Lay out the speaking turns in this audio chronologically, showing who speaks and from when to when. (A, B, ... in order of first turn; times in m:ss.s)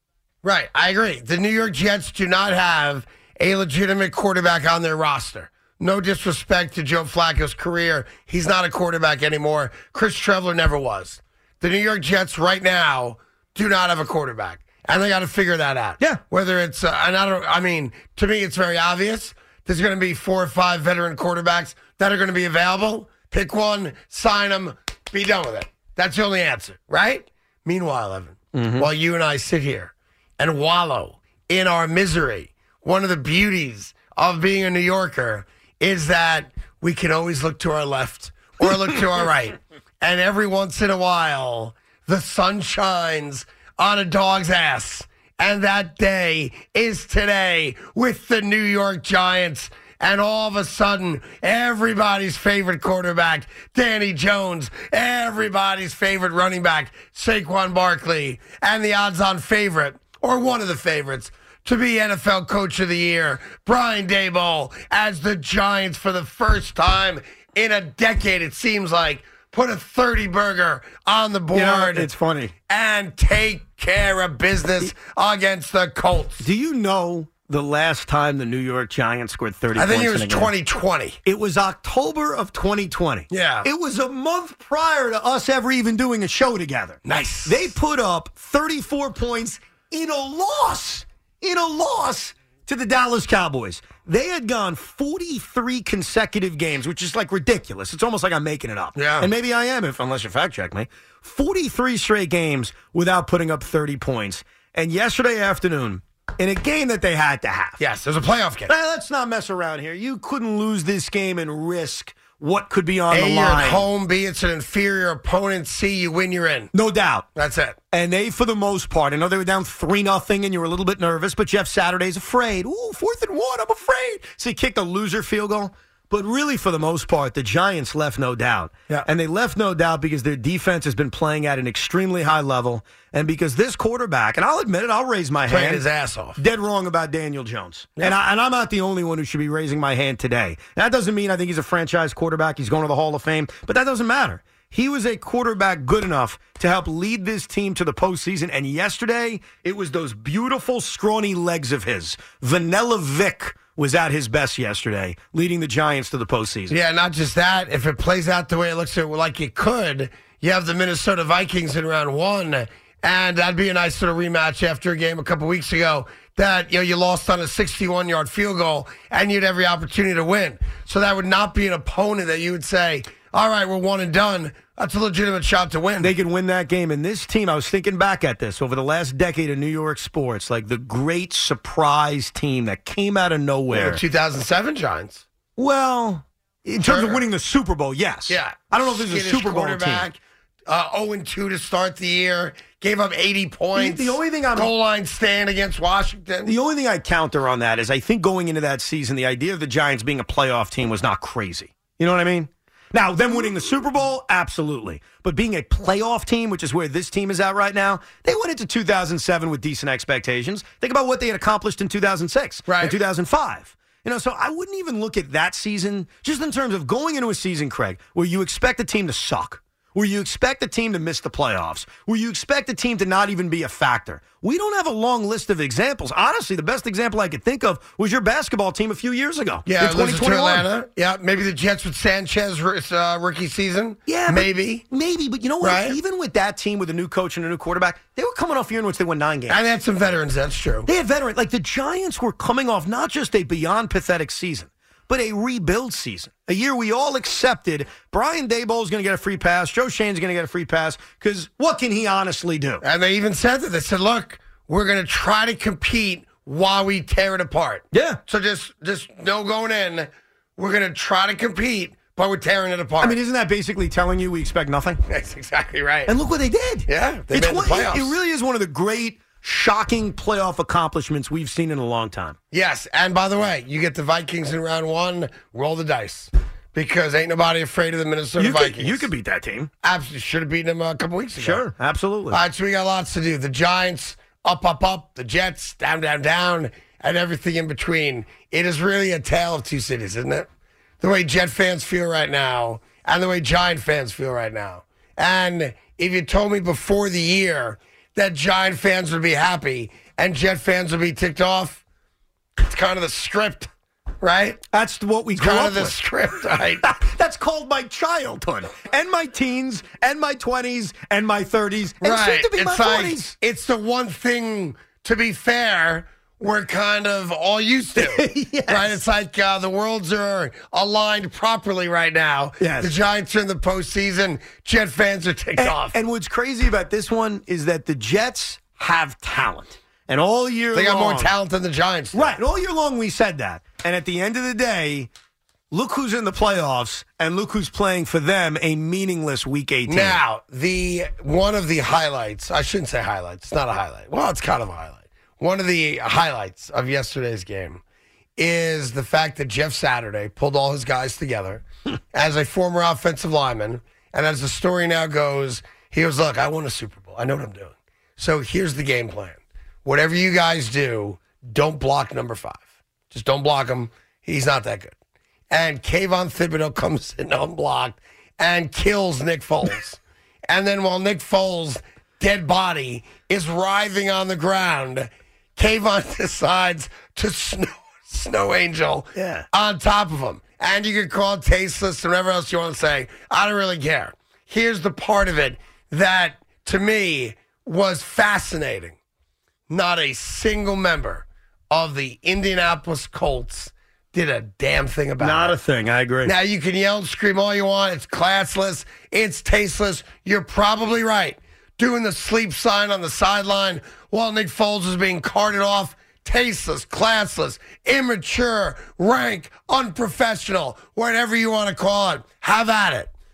0:00.4-1:12.1 A
0:28.5-0:28.9 B
1:11.5-1:12.5 B
1:12.7-1:16.4 A
1:16.4-1:20.5 B
1:19.7-1:21.2 A
1:21.2-1:47.8 B
1:23.3-1:23.7 A
1:27.0-1:27.7 A
1:39.0-1:39.3 A
1:47.8-1:48.7 A
1:48.7-1:53.8 B
1:53.1-1:56.7 A
1:56.7-1:57.2 B
1:57.3-1:57.8 A
1:57.9-2:15.8 B
2:15.5-2:16.4 A
2:16.4-2:36.7 B
2:36.7-2:56.1 A
2:56.0-3:04.0 B
3:03.7-3:05.2 A
3:05.6-3:10.1 B
3:06.8-3:07.2 A
3:08.3-3:16.5 A
3:13.7-3:14.7 B
3:16.4-3:50.7 B
3:32.7-3:33.0 A
3:49.6-3:54.8 A
3:54.1-3:59.6 B
3:55.6-3:56.0 A
3:59.5-4:00.9 A
4:00.8-4:12.8 B
4:12.8-4:23.2 A
4:17.9-4:18.2 B
4:23.0-4:25.0 B
4:25.1-4:26.1 A
4:26.1-4:32.4 B
4:26.9-4:28.2 A
4:32.5-4:39.1 A
4:38.4-4:39.7 B
4:39.8-4:41.6 A
4:41.4-4:42.4 B
4:42.3-4:50.5 A
4:51.0-5:01.8 A
5:02.6-5:03.7 A
5:04.2-5:04.6 A
5:04.7-5:06.0 B
5:05.4-5:06.9 A
5:06.8-5:13.3 B
5:12.0-5:26.0 A
5:17.9-5:18.9 B
5:22.6-5:22.9 B
5:25.6-5:31.3 B
5:30.7-5:32.4 A
5:32.1-5:35.1 B
5:35.7-5:40.2 B
5:39.8-5:47.8 A
5:48.4-6:05.0 A
6:05.5-6:29.0 A
6:19.1-6:19.5 B
6:29.7-6:35.6 A
6:35.2-6:36.3 B
6:36.2-6:53.1 A